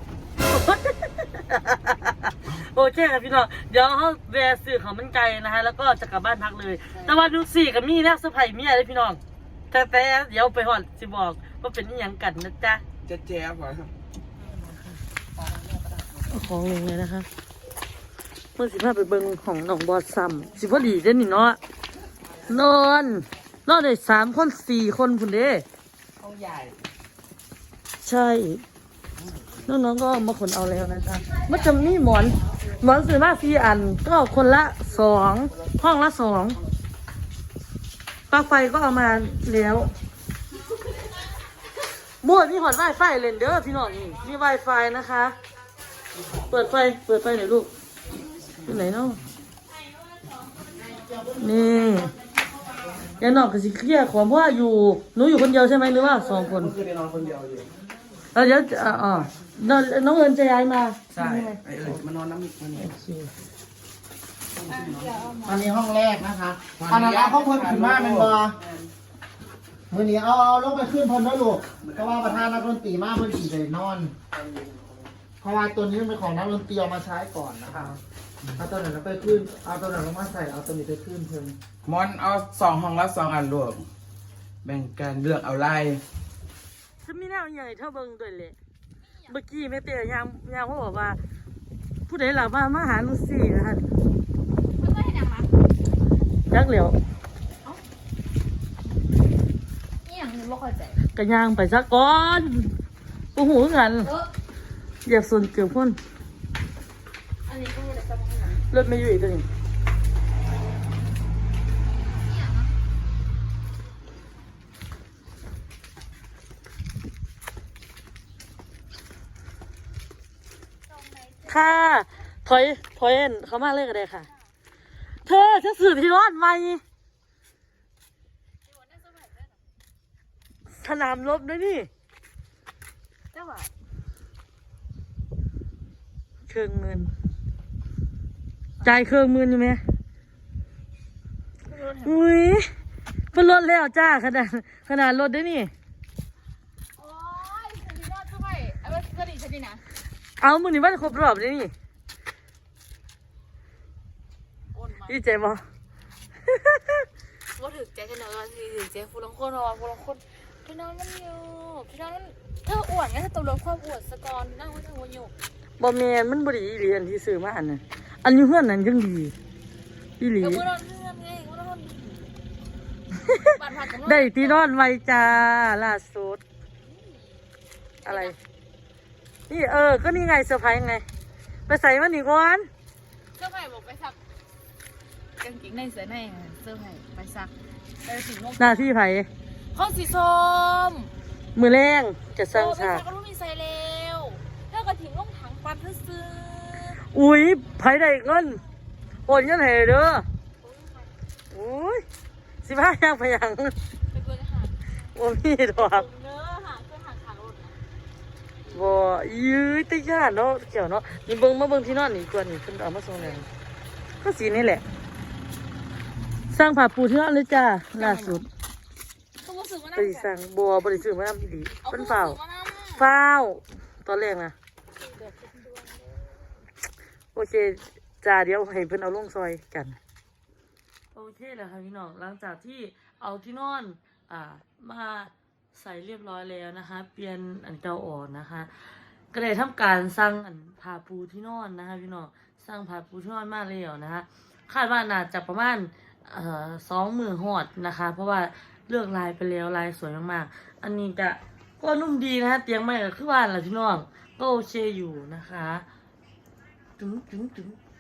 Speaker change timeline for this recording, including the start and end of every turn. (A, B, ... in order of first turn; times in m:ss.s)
0:00.4-0:09.2 A
0:09.7-0:12.8 A
0:13.1-0:13.7 B
0:13.2-0:13.9 C
0:16.3-0:17.3 A
0:18.6-0:21.6 A
0:22.5-0:25.6 A
0:26.2-0:26.6 C
0:28.0-0:28.6 A
0:29.7-0:36.6 A
0:38.3-0:39.9 A
0:42.2-0:45.4 A
0:46.5-0:47.7 A
0:48.6-0:49.2 A
0:50.9-0:51.6 D
0:51.4-0:52.1 A
0:53.2-0:56.8 A
0:56.5-0:57.6 B
0:58.3-1:02.0 A
1:01.2-1:02.0 B
1:01.3-1:02.8 C
1:02.8-1:03.3 A
1:04.6-1:05.7 C
1:04.7-1:05.2 B
1:05.5-1:08.6 D
1:06.8-1:08.8 C
1:06.9-1:08.4 B
1:09.9-1:14.1 D
1:15.4-1:18.0 D
1:18.6-1:21.6 D
1:21.8-1:23.6 B
1:21.9-1:23.8 C
1:24.6-1:25.6 B
1:24.7-1:26.0 C
1:27.0-1:28.6 A
1:29.3-1:31.2 A
1:32.1-1:33.9 A
1:34.8-1:35.5 C
1:36.5-1:37.0 A
1:40.0-1:41.0 C
1:41.1-1:42.8 A
1:43.4-1:44.1 A
1:45.1-1:46.0 A
1:47.5-1:48.6 C
1:48.7-1:49.5 A
1:52.3-1:52.7 C
2:00.9-2:01.6 C
2:01.5-2:04.3 A
2:05.2-2:06.8 A
2:08.7-2:09.6 C
2:10.7-2:11.9 A
2:13.3-2:13.7 C
2:16.5-2:17.1 A
2:18.8-2:19.8 A
2:21.7-2:22.2 C
2:22.0-2:22.7 A
2:23.3-2:25.7 A
2:27.0-2:29.8 C
2:30.4-2:31.7 A
2:34.8-2:35.2 C
2:35.1-2:35.6 A
2:36.5-2:37.0 A
2:37.6-2:45.3 C
2:45.8-2:49.3 A
2:50.2-2:50.6 A
2:50.4-2:52.3 C
2:53.3-2:54.6 C
2:54.0-2:56.4 A
2:56.8-2:57.5 C
2:58.0-2:58.4 C
2:58.0-2:58.4 A
2:59.5-3:01.0 A
3:01.7-3:02.7 A
3:03.4-3:04.2 C
3:05.4-3:07.5 C
3:08.0-3:08.8 C
3:08.6-3:09.3 A
3:09.7-3:11.1 C
3:11.6-3:13.0 A
3:12.5-3:17.0 C
3:17.0-3:18.6 A
3:19.3-3:20.3 A
3:20.6-3:21.2 C
3:21.5-3:22.0 A
3:22.6-3:23.8 A
3:24.1-3:24.8 C
3:25.2-3:26.1 A
3:25.8-3:27.8 C
3:28.7-3:33.5 A
3:33.2-3:33.5 C
3:34.2-3:34.8 A
3:36.5-3:38.5 A
3:38.0-3:38.4 C
3:39.4-3:40.4 C
3:40.0-3:42.4 A
3:41.8-3:43.1 C
3:43.0-3:44.6 A
3:45.0-3:46.4 C
3:47.3-3:50.0 A
3:51.1-4:15.9 A
4:17.0-4:17.8 A